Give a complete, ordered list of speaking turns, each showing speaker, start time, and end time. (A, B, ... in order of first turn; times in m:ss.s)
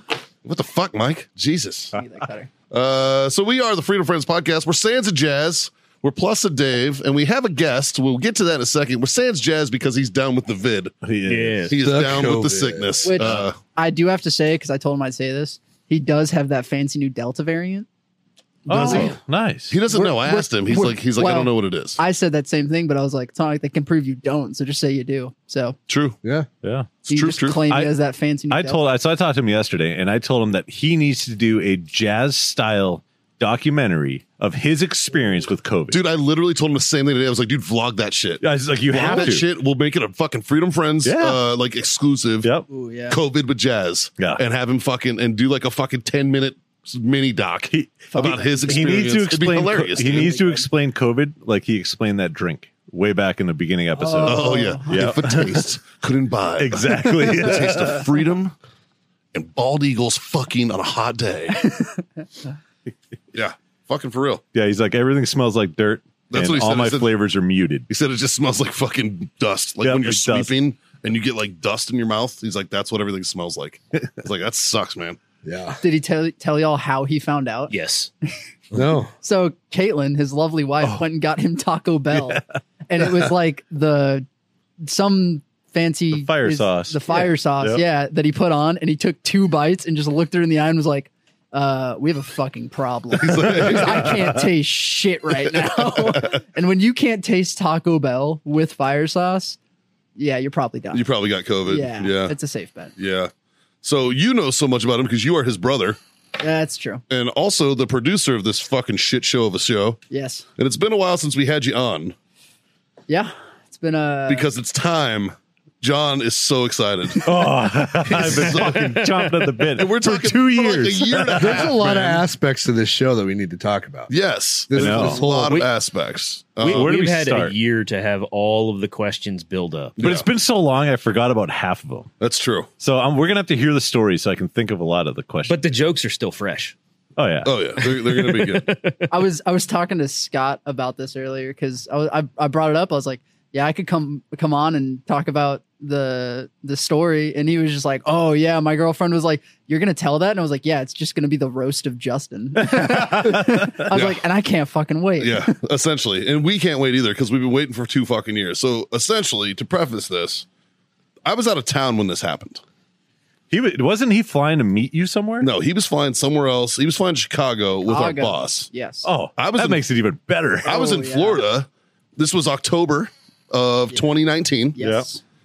0:00.4-0:01.9 A
0:01.9-0:02.5 B
0:02.7-0:10.9 A
0:11.0-0:11.7 C
0:11.2-0:11.7 D
0:11.7-0:13.6 A
0:11.7-0:13.4 E
0:13.0-0:17.9 B
0:18.6-0:19.1 B
0:18.7-0:19.8 C
0:18.7-0:19.1 A
0:19.7-0:22.0 A
0:19.9-0:25.8 B
0:25.9-0:26.2 A
0:26.6-0:26.9 C
0:27.1-0:27.6 A
0:27.1-0:28.8 B
0:28.5-0:36.0 C
0:35.9-0:42.5 A
0:38.4-0:39.4 C
0:41.0-0:41.4 C
0:42.7-0:43.2 B
0:43.1-0:50.4 A
0:47.7-0:55.6 C
0:48.1-0:50.6 B
0:54.0-0:55.2 B
0:54.2-0:58.5 A
0:56.6-0:58.0 C
0:59.3-1:01.7 A
1:03.3-1:04.4 A
1:04.5-1:07.9 C
1:06.3-1:07.1 A
1:07.9-1:15.2 A
1:09.8-1:10.5 C
1:15.4-1:15.8 E
1:15.8-1:17.7 B
1:17.7-1:18.1 D
1:18.7-1:19.1 E
1:19.2-1:24.2 B
1:24.8-1:39.6 B
1:26.1-1:27.8 C
1:33.1-1:34.2 A
1:35.5-1:36.4 A
1:40.2-1:41.0 B
1:40.9-1:42.3 A
1:41.6-1:42.9 B
1:43.0-1:43.3 A
1:43.8-1:46.0 A
1:46.4-1:47.0 B
1:47.1-1:50.0 A
1:50.1-1:50.4 B
1:50.6-1:52.2 A
1:53.1-1:54.5 B
1:54.3-1:59.1 A
1:57.2-2:01.7 C
1:59.7-2:02.2 A
2:01.3-2:04.1 E
2:04.1-2:06.9 A
2:04.7-2:05.7 E
2:04.7-2:05.2 C
2:06.6-2:10.0 D
2:06.6-2:07.5 C
2:10.0-2:10.2 A
2:10.0-2:12.1 C
2:12.2-2:12.7 A
2:12.8-2:15.6 C
2:15.5-2:16.7 D
2:17.2-2:17.5 C
2:17.4-2:18.7 A
2:18.2-2:19.1 D
2:19.1-2:35.5 B
2:32.7-2:33.5 C
2:33.9-2:34.2 A
2:35.2-2:40.4 A
2:41.2-2:42.6 A
2:43.5-2:45.5 C
2:45.4-2:48.7 A
2:47.8-2:49.1 B
2:49.0-2:50.8 C
2:49.4-2:49.8 A
2:50.6-2:54.8 A
2:50.6-2:51.4 B
2:54.7-2:55.2 B
2:54.8-2:55.0 C